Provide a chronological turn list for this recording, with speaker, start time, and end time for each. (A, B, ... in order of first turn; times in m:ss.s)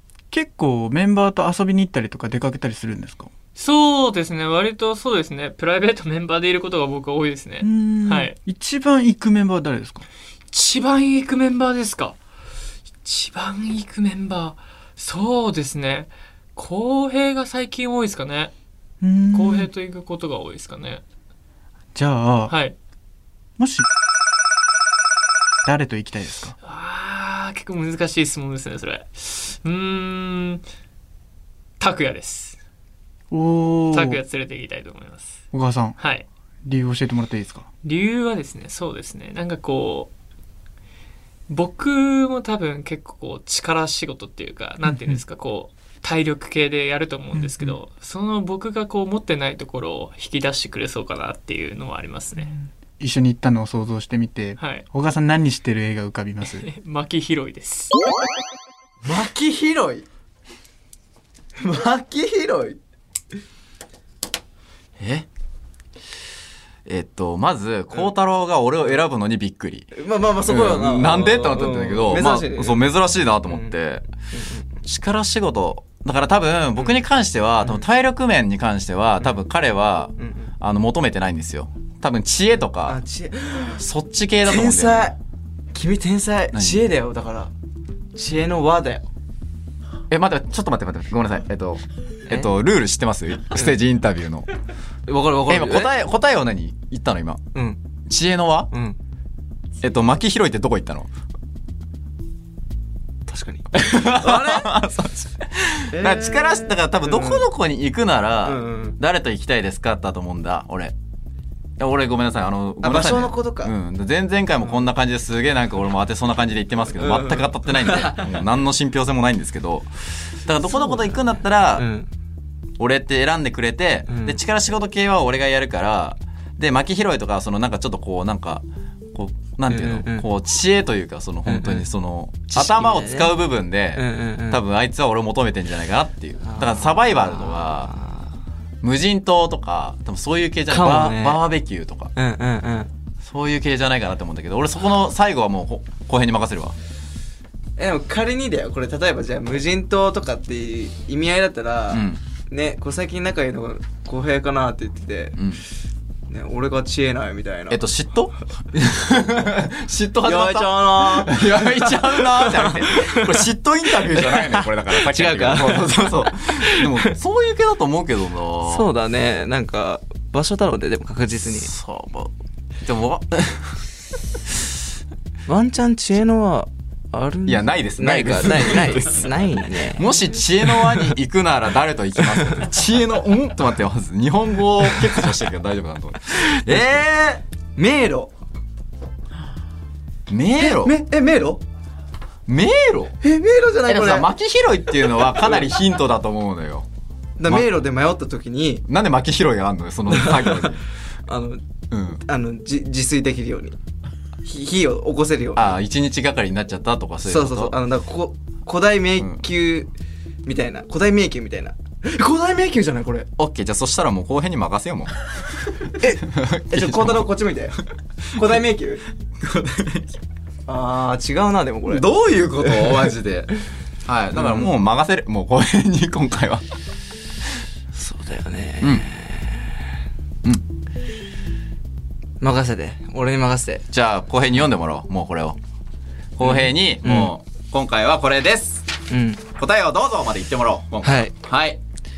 0:00.3-0:03.3 A
0:03.6-0:08.4 B
0:07.6-0:10.1 A
0:10.5-0:12.2 B
0:13.0-0:18.5 B
0:19.0-0:19.7 A
0:19.3-0:21.0 B
0:21.9-0:22.5 A
0:22.5-0:22.8 B
0:23.6-0:23.8 A
0:25.6-0:26.5 A
0:26.6-0:30.6 B
0:31.8-0:32.6 B
0:33.3-0:34.2 A
0:33.9-0:35.3 B
0:35.5-0:36.0 A
0:36.0-0:36.2 B
0:36.6-0:37.6 A
0:37.8-0:40.1 B
0:41.5-0:52.5 B
0:44.8-0:45.2 A
0:47.3-0:47.8 A
0:53.0-0:56.7 A
0:54.6-0:54.9 B
0:56.4-0:57.9 B
0:59.0-1:00.0 C
1:01.6-1:02.8 C
1:05.0-1:05.2 D
1:06.8-1:09.9 D
1:09.9-1:12.9 C
1:10.4-1:14.0 D
1:13.5-1:13.7 C
1:14.3-1:14.7 C
1:14.8-1:23.0 D
1:20.2-1:20.5 C
1:22.8-1:23.8 C
1:23.7-1:25.1 D
1:24.4-1:25.2 C
1:25.7-1:27.5 C
1:26.5-1:26.8 D
1:28.1-1:29.1 C
1:30.1-1:34.5 D
1:35.1-1:35.9 C
1:35.5-1:37.4 D
1:37.5-1:37.8 C
1:38.1-1:38.7 D
1:38.7-1:39.0 C
1:39.8-1:41.1 D
1:43.3-1:45.0 C
1:43.7-1:50.9 D
1:45.9-1:47.4 C
1:48.4-1:49.0 C
1:51.8-2:01.8 D
1:52.8-1:53.7 C
1:57.0-1:58.3 C
2:00.6-2:01.2 C
2:01.8-2:02.1 C
2:02.8-2:17.9 D
2:04.1-2:04.4 C
2:09.7-2:10.2 C
2:11.4-2:11.8 C
2:12.5-2:13.3 C
2:13.9-2:14.6 C
2:16.4-2:18.3 C
2:18.8-2:22.1 D
2:20.7-2:21.4 C
2:22.1-2:22.9 C
2:23.2-2:26.8 D
2:27.8-2:35.4 C
2:31.9-2:32.2 D
2:35.4-2:35.6 D
2:36.3-2:37.8 C
2:37.7-2:48.9 D
2:40.2-2:47.1 C
2:48.6-2:51.7 C
2:51.6-2:52.3 D
2:52.8-2:53.8 D
2:55.5-3:00.0 C
2:57.4-2:59.2 D
2:59.9-3:07.1 D
3:00.7-3:01.1 C
3:06.6-3:08.3 C
3:10.3-3:11.0 D
3:10.6-3:11.6 C
3:12.5-3:13.1 D
3:13.2-3:14.3 C
3:13.8-3:16.8 D
3:15.2-3:15.6 C
3:17.4-3:18.8 C
3:17.4-3:17.7 D
3:18.9-3:20.8 D
3:20.1-3:21.6 C
3:21.9-3:22.2 D
3:22.2-3:23.8 C
3:24.4-3:25.7 C
3:25.6-3:27.8 D
3:27.2-3:29.9 C
3:30.4-3:33.3 C
3:33.4-3:35.1 D
3:35.9-3:37.8 C
3:36.2-3:37.3 D
3:38.3-3:39.0 C
3:39.4-3:40.2 D
3:40.7-3:42.0 C
3:41.9-3:43.5 D
3:42.6-3:43.1 C
3:44.0-3:46.6 D
3:44.3-3:44.7 C
3:47.9-3:49.6 C
3:48.8-3:49.0 D
3:52.4-3:53.8 C
3:53.9-3:55.6 D
3:56.4-3:58.9 D
3:56.4-3:57.3 C
3:59.1-3:59.4 C
3:59.5-4:01.8 D
4:01.0-4:01.3 C